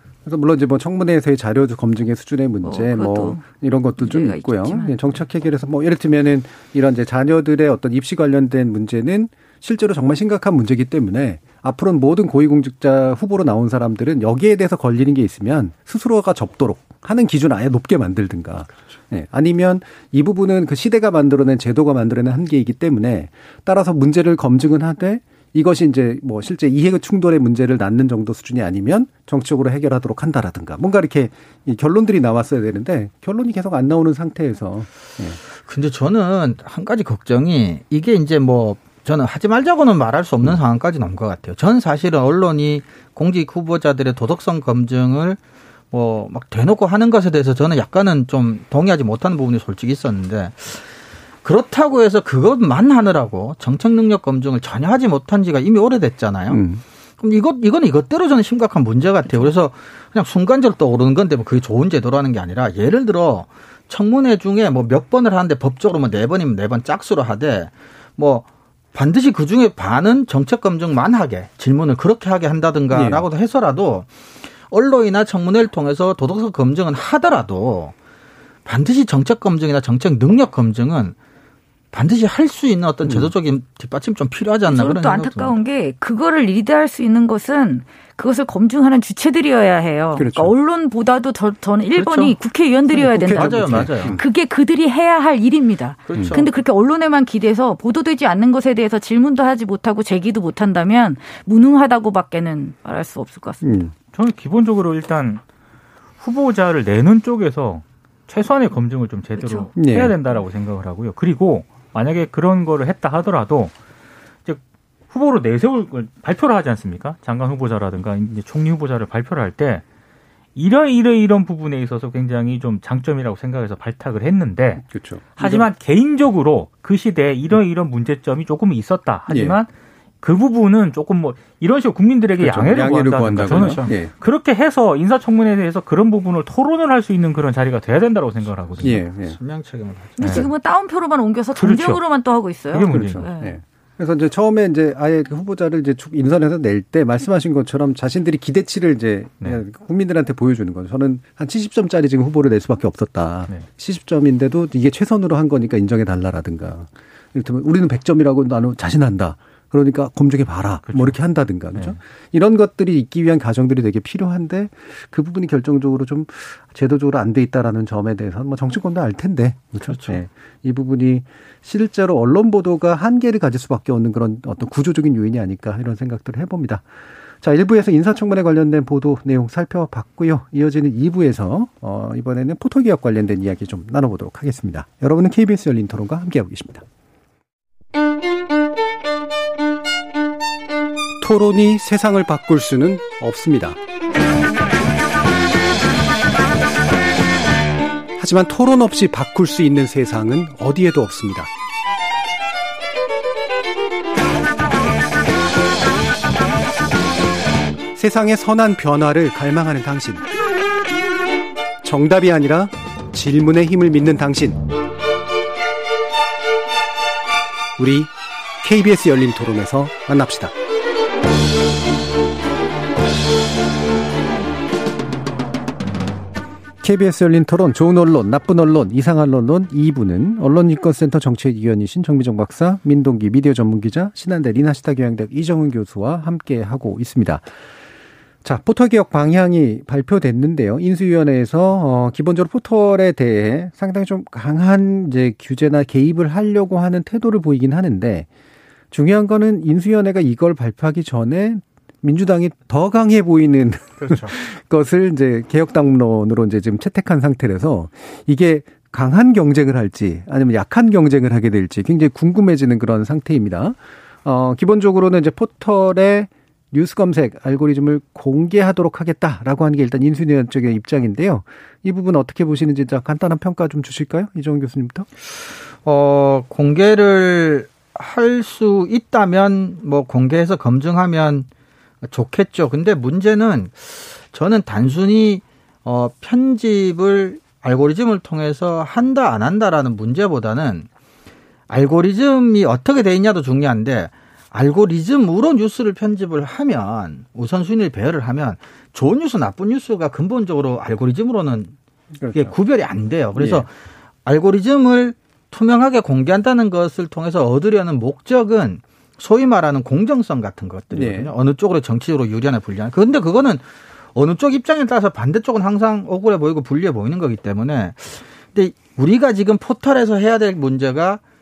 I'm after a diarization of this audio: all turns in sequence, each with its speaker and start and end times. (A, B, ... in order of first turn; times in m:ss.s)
0:00.3-0:35.4 A
0:02.6-0:03.5 B
0:04.0-0:05.2 B
0:35.6-0:45.4 C
0:45.9-0:50.8 C
0:51.4-0:56.6 C
0:56.5-0:56.8 A
0:57.2-1:14.1 C
1:12.9-1:13.3 A
1:14.7-1:17.9 C
1:18.7-1:21.2 C
1:21.9-1:25.6 C
1:23.0-1:23.3 A
1:24.7-1:43.6 B
1:30.2-1:30.5 A
1:32.0-1:32.4 C
1:32.9-1:34.2 A
1:33.0-1:34.2 C
1:36.1-1:36.4 C
1:36.1-1:36.4 A
1:43.6-1:43.9 A
1:44.1-1:45.4 D
1:46.2-1:53.7 D
1:49.4-1:49.7 B
1:49.8-1:50.2 A
1:54.5-1:59.8 D
2:00.6-2:04.8 D
2:04.8-2:05.7 A
2:05.4-2:09.7 D
2:09.3-2:09.6 A
2:10.2-2:19.0 D
2:12.4-2:14.1 A
2:13.5-2:13.9 C
2:18.7-2:20.5 C
2:18.8-2:19.4 A
2:20.2-2:23.6 B
2:20.2-2:20.5 D
2:21.6-2:22.0 D
2:22.7-2:23.2 D
2:22.9-2:56.9 A
2:40.9-2:41.2 D
2:57.4-3:06.8 A
3:11.2-3:13.8 A
3:18.2-3:21.5 A
3:27.9-3:30.3 A
3:31.8-3:34.6 A
3:37.8-3:40.5 A
3:46.8-3:57.5 A
3:58.4-4:08.3 A
4:08.9-4:35.1 A
4:14.0-4:14.3 C
4:35.8-4:41.5 C
4:42.0-4:50.9 C
4:51.7-5:01.8 C
5:02.2-5:02.5 A
5:02.3-5:03.7 C
5:03.4-5:03.7 A
5:04.2-5:21.2 C
5:10.9-5:11.3 A